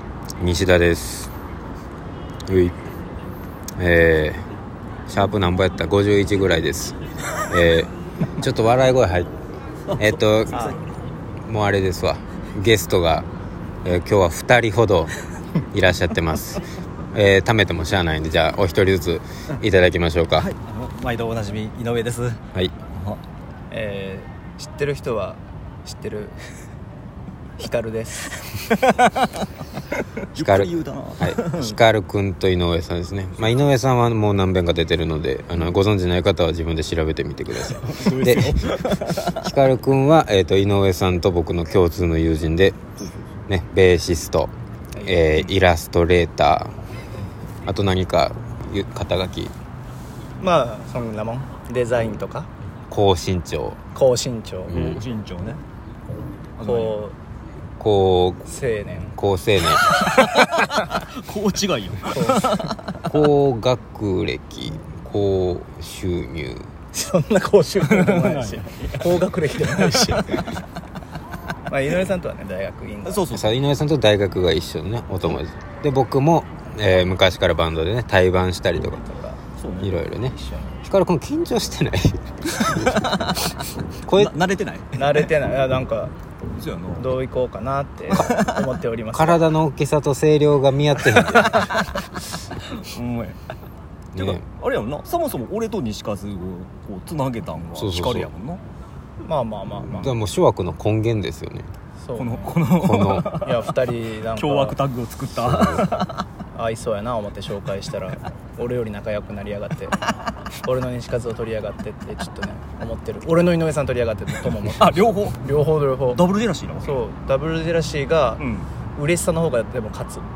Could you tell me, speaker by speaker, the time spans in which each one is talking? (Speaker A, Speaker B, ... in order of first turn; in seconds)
Speaker A: 0.4-1.3, 2.5-2.8, 3.8-4.4, 5.1-9.3, 10.0-10.8, 11.4-13.3, 13.8-15.2, 15.7-20.5, 30.4-42.8, 43.5-44.5, 45.0-46.7, 47.6-49.5, 52.9-53.8, 54.7-55.0, 57.8-58.5, 59.1-60.0, 63.0-66.7, 73.3-79.0, 79.8-83.3, 84.1-84.3, 89.1-91.7, 94.1-94.4, 97.7-98.3, 99.9-101.7, 102.7-103.3, 105.4-105.9
Speaker B: 10.5-10.8, 23.7-26.4, 27.6-28.7, 45.0-45.5, 50.4-52.5, 53.9-54.8, 56.6-57.1, 58.5-59.1, 62.1-62.7, 66.9-70.6, 71.7-73.2, 79.0-79.4, 85.0-86.1, 87.0-89.5, 99.2-100.0, 102.0-102.6, 103.3-104.8, 106.5-110.0, 110.6-116.2, 116.8-118.4, 118.9-120.3
Speaker C: 20.4-22.4, 22.9-23.2, 29.0-29.3, 30.3-31.8, 37.7-39.5, 43.0-43.3, 54.7-55.6, 56.6-57.0, 59.8-63.1, 67.8-70.4, 73.0-73.6, 79.6-80.7, 82.5-83.5, 84.1-85.3, 86.5-87.2, 88.1-88.6, 91.1-91.7, 92.6-93.4, 94.2-98.6, 99.9-100.2, 102.1-106.2, 114.6-115.5, 116.1-117.0, 118.4-118.7